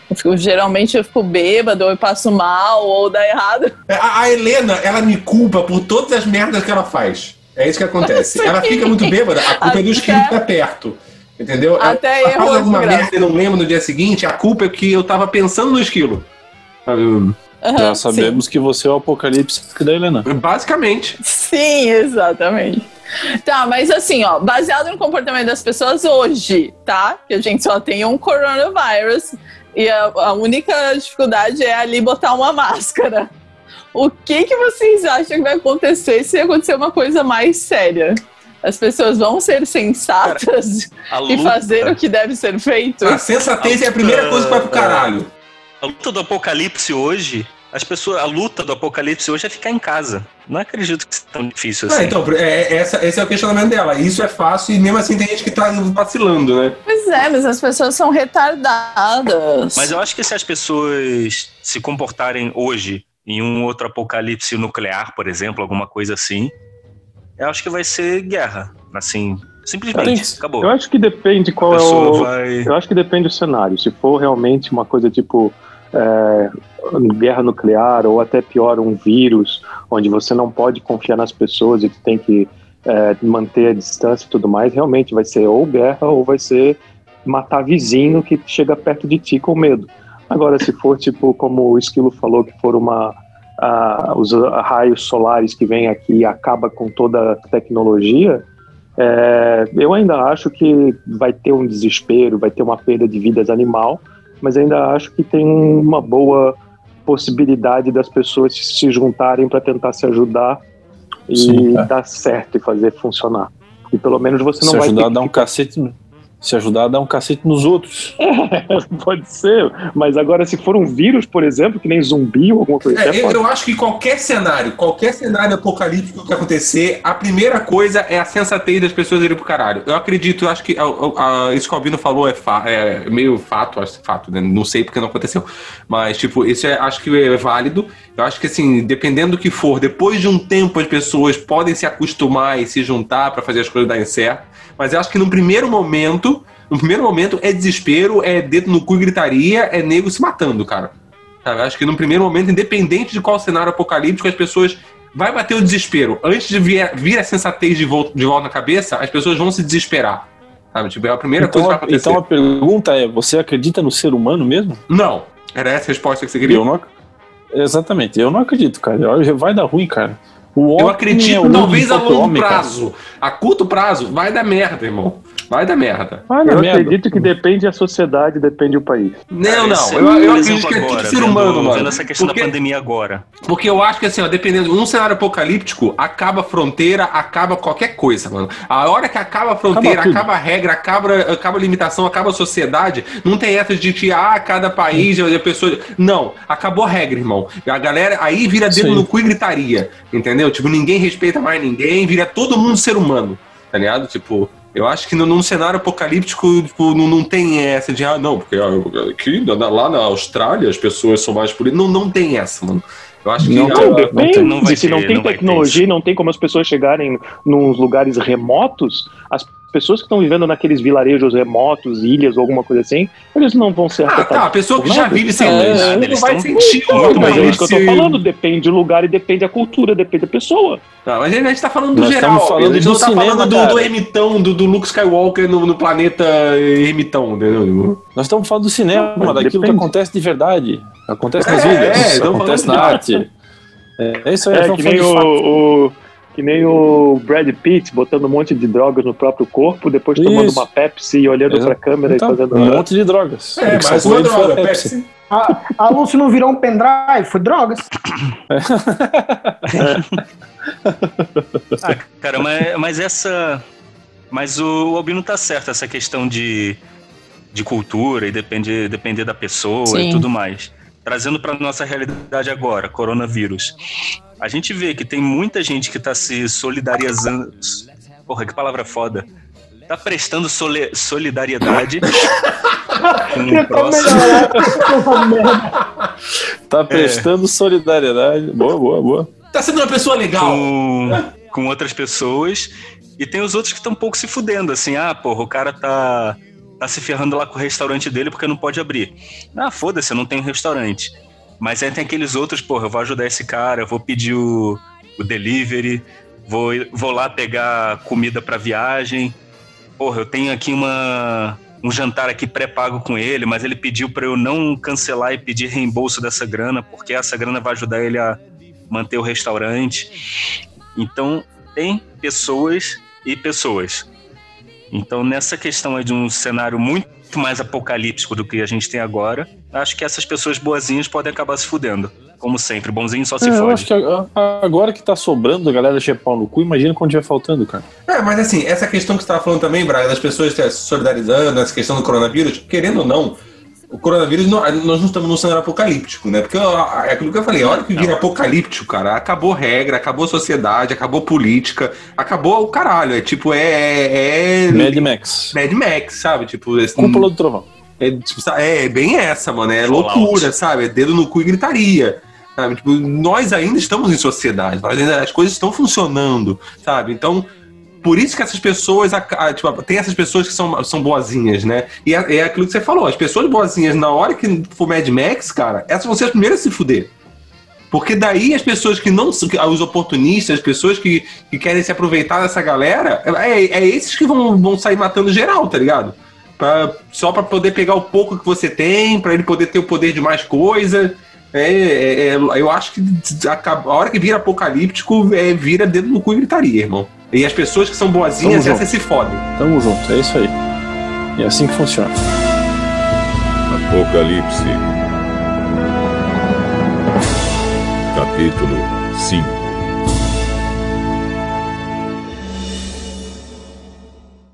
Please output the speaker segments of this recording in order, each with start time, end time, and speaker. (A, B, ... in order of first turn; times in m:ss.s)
0:00.1-0:03.7 A
0:03.9-0:16.3 B
0:08.1-0:10.4 A
0:11.8-0:13.1 A
0:16.8-0:17.4 B
0:17.6-0:18.4 A
0:17.8-0:20.2 C
0:20.2-0:21.2 B
0:21.2-0:22.9 A
0:23.4-0:33.3 A
0:33.9-0:43.2 A
0:41.1-0:42.0 D
0:43.0-0:45.3 B
0:43.6-0:45.1 D
0:45.8-0:52.2 D
0:51.9-0:56.8 B
0:56.9-0:59.9 A
0:59.8-1:06.5 D
1:07.4-1:10.7 D
1:09.9-1:10.4 C
1:10.6-1:38.4 E
1:11.6-1:12.7 D
1:39.0-1:50.6 E
1:51.3-1:55.5 E
1:51.3-1:51.9 C
1:54.6-1:58.1 C
1:58.2-2:03.4 E
2:02.8-2:42.2 B
2:41.4-2:44.8 C
2:44.9-2:46.6 B
2:46.4-2:46.9 C
2:47.5-2:52.7 C
2:50.8-2:56.3 B
2:56.3-2:57.3 C
2:56.4-2:59.2 E
2:59.3-3:02.5 B
2:59.4-3:03.2 D
3:03.4-3:34.1 B
3:09.7-3:10.3 C
3:18.7-3:19.1 C
3:33.4-3:34.5 C
3:33.6-3:46.1 E
3:34.4-3:35.8 D
3:44.0-3:48.2 B
3:45.4-3:47.7 D
3:46.7-3:50.8 E
3:51.0-3:58.0 B
3:51.9-3:53.9 C
3:58.2-4:03.3 C
3:58.9-3:59.9 E
4:01.4-4:03.0 B
4:04.0-4:05.3 C
4:04.5-4:12.9 E
4:10.1-4:10.7 C
4:11.5-4:14.9 C
4:13.6-4:15.0 B
4:15.3-4:17.8 F
4:18.5-4:20.0 C
4:20.8-4:21.6 C
4:21.8-4:23.6 D
4:24.3-4:26.8 D
4:27.5-4:33.8 D
4:29.9-4:30.2 A
4:34.4-4:39.3 D
4:39.9-4:42.2 D
4:43.0-4:45.8 F
4:43.3-4:44.4 D
4:46.7-4:49.3 C
4:46.9-4:47.3 D
4:49.5-4:51.2 B
4:50.4-5:09.4 D
5:10.0-5:18.4 D
5:18.9-5:20.1 D
5:20.9-5:24.1 D
5:24.9-5:33.9 D
5:33.4-5:37.8 C
5:38.1-5:43.4 B
5:43.9-5:57.3 B
5:47.6-5:48.2 D
5:54.7-5:55.6 C
5:57.0-5:57.6 C
5:58.0-6:07.5 B
5:59.8-6:00.5 D
6:08.0-6:17.1 B
6:17.9-6:39.4 B
6:38.4-6:38.9 C
6:39.6-6:40.5 C
6:41.4-6:42.1 C
6:43.7-6:44.9 G
6:48.1-6:49.8 G